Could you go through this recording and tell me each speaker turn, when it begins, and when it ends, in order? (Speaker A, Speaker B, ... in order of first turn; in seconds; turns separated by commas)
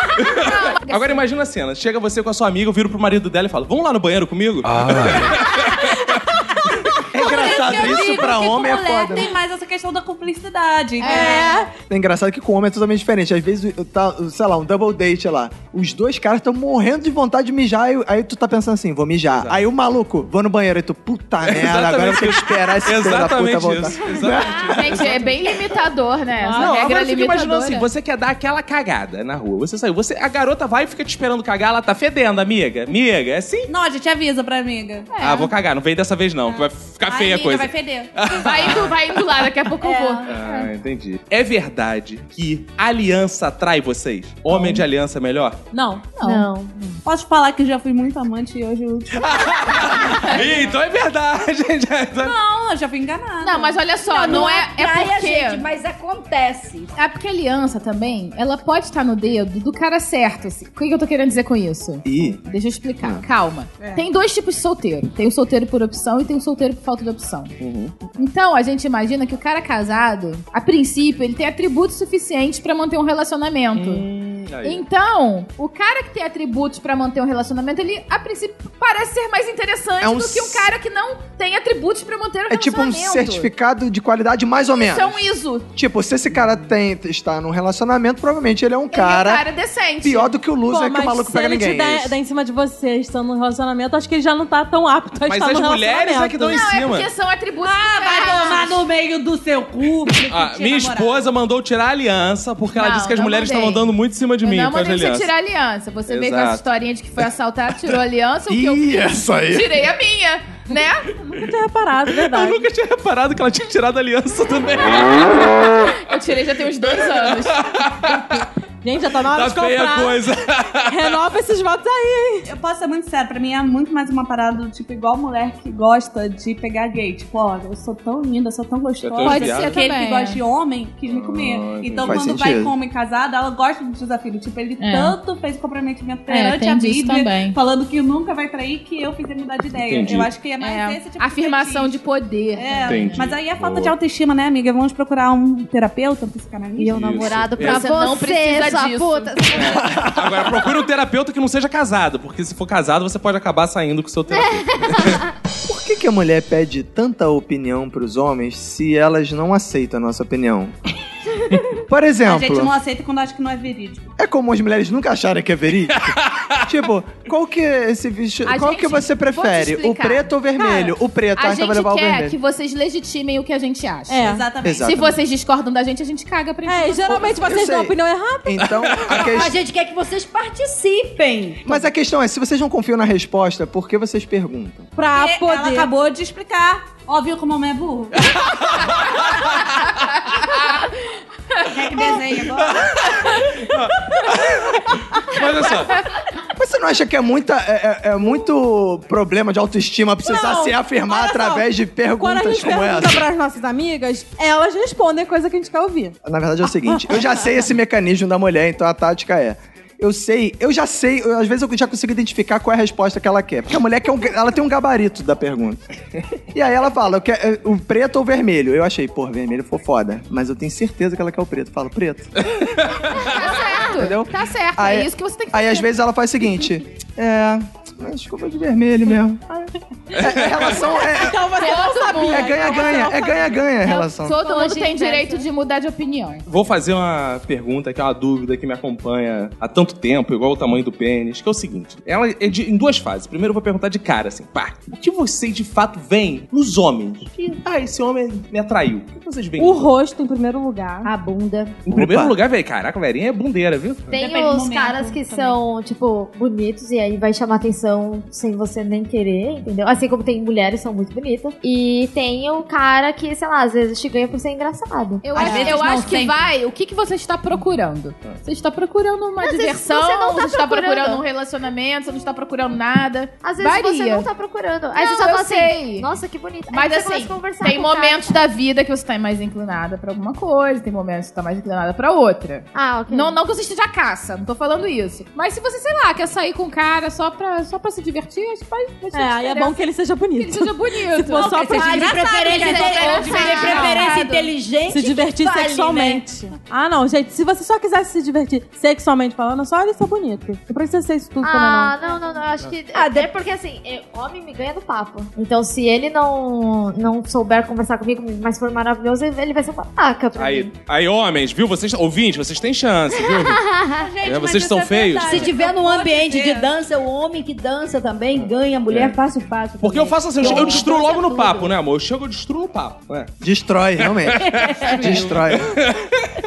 Speaker A: 0.1-6.2, Speaker B: 0.3-1.2, Speaker C: 7.1-9.3, Speaker D: 7.2-11.7, Speaker B: 11.0-11.6, Speaker E: 11.0-11.7, Speaker C: 11.9-25.1, Speaker A: 19.3-19.6, Speaker A: 21.4-25.4, Speaker B: 24.7-27.9, Speaker E: 26.4-26.8, Speaker A: 26.6-33.7, Speaker D: 33.7-35.1, Speaker B: 35.1-35.5, Speaker A: 35.2-39.1, Speaker D: 36.5-38.1, Speaker B: 38.4-40.5, Speaker E: 39.9-40.2, Speaker A: 40.3-45.6, Speaker E: 45.7-46.1, Speaker B: 46.1-46.5, Speaker F: 46.2-47.0, Speaker D: 47.0-50.5, Speaker A: 49.1-52.4, Speaker D: 52.2-53.8, Speaker B: 53.4-55.6, Speaker G: 54.1-56.9, Speaker B: 57.0-67.5, Speaker C: 62.0-62.4, Speaker D: 63.8-64.0, Speaker A: 67.6-67.9, Speaker B: 68.2-74.1, Speaker A: 73.8-74.8, Speaker B: 74.6-83.5, Speaker C: 80.0-80.7, Speaker C: 82.5-85.2, Speaker B: 84.8-85.7, Speaker C: 85.7-89.5, Speaker B: 88.9-90.3, Speaker C: 90.0-92.2, Speaker E: 90.7-96.6, Speaker A: 95.2-97.1, Speaker B: 96.5-98.8, Speaker D: 97.6-101.3, Speaker A: 100.3-105.3, Speaker B: 102.7-103.9, Speaker B: 104.4-111.1, Speaker A: 106.1-106.6, Speaker C: 108.5-109.7, Speaker E: 111.3-112.7, Speaker A: 112.2-115.5, Speaker B: 115.8-117.6, Speaker A: 117.1-118.3, Speaker E: 118.8-120.3, Speaker A: 119.2-121.2, Speaker E: 120.9-122.5, Speaker D: 122.5-142.0, Speaker A: 129.0-129.8, Speaker B: 129.2-130.4, Speaker A: 131.1-132.3, Speaker C: 132.0-132.7, Speaker B: 134.8-135.2, Speaker B: 136.3-137.6, Speaker A: 139.8-140.3, Speaker B: 140.6-143.3, Speaker D: 142.6-147.5, Speaker A: 142.9-143.9, Speaker F: 146.8-150.0, Speaker A: 146.9-147.8, Speaker B: 147.6-149.7, Speaker G: 147.7-149.2, Speaker A: 149.6-155.2, Speaker C: 149.8-150.7, Speaker F: 154.3-155.2, Speaker C: 155.7-160.8, Speaker C: 161.7-162.8, Speaker D: 162.3-164.1, Speaker C: 164.2-172.4, Speaker A: 165.9-166.7, Speaker B: 168.4-170.3, Speaker D: 170.6-170.9, Speaker B: 171.3-174.3, Speaker E: 174.1-174.5, Speaker D: 174.2-174.8, Speaker C: 174.6-175.2, Speaker B: 174.8-177.6, Speaker E: 176.7-178.8, Speaker C: 177.4-179.5, Speaker A: 178.7-179.3, Speaker G: 179.2-181.8, Speaker C: 181.7-184.9, Speaker E: 185.0-185.9, Speaker D: 185.1-188.3, Speaker A: 188.2-190.6, Speaker D: 191.7-193.1, Speaker A: 192.5-196.0, Speaker C: 196.6-203.3, Speaker E: 200.2-207.5, Speaker C: 206.2-215.8, Speaker C: 216.5-222.5, Speaker A: 222.4-223.4, Speaker B: 223.2-225.9, Speaker C: 223.8-231.5, Speaker A: 230.3-230.6, Speaker E: 230.9-233.8, Speaker B: 231.6-232.9, Speaker C: 232.3-234.4, Speaker B: 233.9-236.4, Speaker F: 234.3-235.5, Speaker A: 236.5-249.9, Speaker E: 249.6-251.1, Speaker G: 251.0-251.8, Speaker A: 251.9-254.1, Speaker C: 251.9-252.4, Speaker F: 254.1-265.7, Speaker D: 254.1-255.6, Speaker B: 265.2-274.3, Speaker D: 265.4-266.5, Speaker F: 269.4-271.2, Speaker F: 273.4-278.4, Speaker B: 274.9-276.1, Speaker B: 276.7-291.5, Speaker F: 282.7-283.4, Speaker E: 289.1-292.3, Speaker D: 291.3-294.4, Speaker G: 291.7-296.2, Speaker B: 292.5-294.3, Speaker F: 293.3-293.8, Speaker E: 294.9-302.0, Speaker F: 301.4-310.7, Speaker G: 302.9-303.3, Speaker A: 310.4-313.7, Speaker F: 313.3-314.1, Speaker D: 314.0-316.7, Speaker A: 314.2-315.5, Speaker G: 315.2-321.7, Speaker A: 318.4-319.2, Speaker A: 319.8-323.3, Speaker F: 320.4-320.9, Speaker C: 323.4-325.8, Speaker A: 324.0-326.3